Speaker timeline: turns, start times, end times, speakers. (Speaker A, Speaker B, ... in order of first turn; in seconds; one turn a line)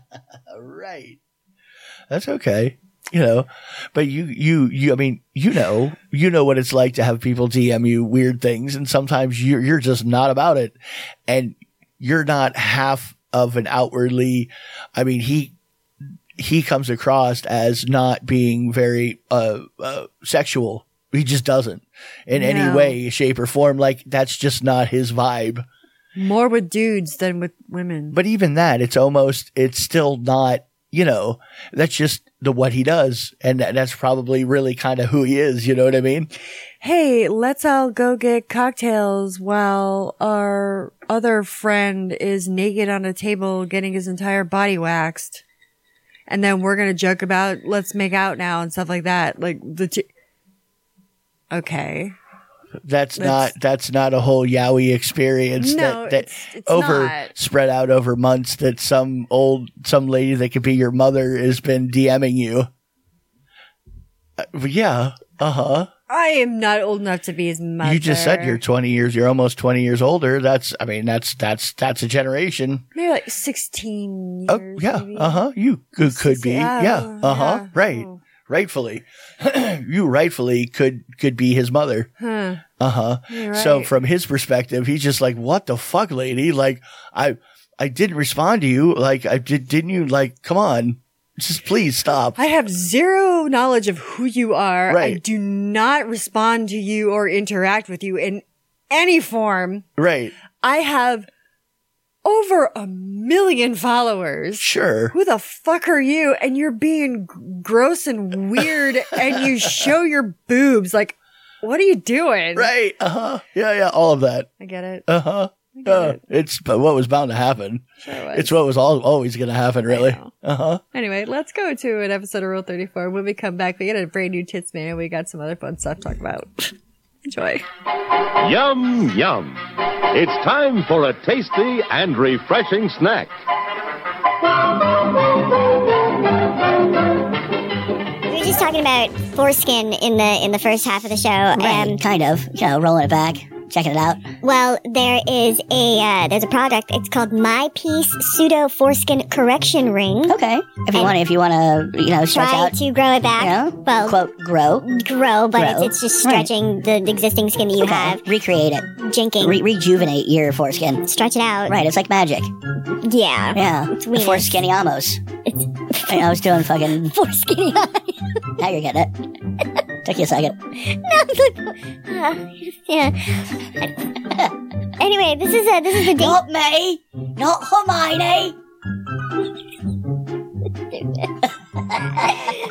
Speaker A: 0.5-1.2
Speaker A: 2.1-10.8
Speaker A: 11.3-15.5
Speaker A: 16.4-25.6
Speaker B: 22.3-23.0
Speaker B: 26.1-28.2
Speaker A: 28.1-36.3
Speaker B: 36.8-45.4
Speaker B: 46.3-50.1
Speaker B: 51.5-52.1
Speaker A: 52.8-62.7
Speaker B: 53.2-53.5
Speaker B: 55.6-57.3
Speaker A: 64.4-65.9
Speaker B: 66.1-68.6
Speaker A: 67.8-72.8
Speaker B: 72.9-75.4
Speaker A: 74.5-82.1
Speaker B: 76.0-78.2
Speaker B: 82.2-82.6
Speaker A: 82.8-92.4
Speaker B: 83.3-83.9
Speaker B: 92.4-99.8
Speaker A: 94.9-95.2
Speaker A: 100.0-100.3
Speaker B: 100.6-101.3
Speaker B: 102.2-112.7
Speaker A: 104.6-105.1
Speaker A: 109.2-109.9
Speaker A: 112.5-114.5
Speaker B: 114.6-115.1
Speaker A: 115.1-120.8
Speaker B: 115.7-116.2
Speaker B: 118.0-118.6
Speaker B: 119.9-120.3
Speaker B: 120.9-126.7
Speaker B: 127.2-127.6
Speaker C: 128.4-133.3
Speaker D: 138.3-142.0
Speaker E: 141.5-144.3
Speaker D: 144.4-150.4
Speaker E: 150.3-152.8
Speaker D: 152.3-154.2
Speaker E: 153.4-154.9
Speaker D: 154.8-158.2
Speaker E: 155.5-156.5
Speaker E: 157.8-158.9
Speaker D: 159.0-159.6
Speaker E: 159.4-161.1
Speaker D: 161.1-161.7
Speaker E: 161.7-162.5
Speaker D: 163.0-164.5
Speaker E: 163.5-165.2
Speaker E: 166.1-167.1
Speaker D: 166.9-168.2
Speaker E: 168.6-169.1
Speaker E: 170.0-170.6
Speaker D: 170.9-173.9
Speaker D: 175.0-176.4
Speaker E: 176.0-178.5
Speaker E: 182.2-182.5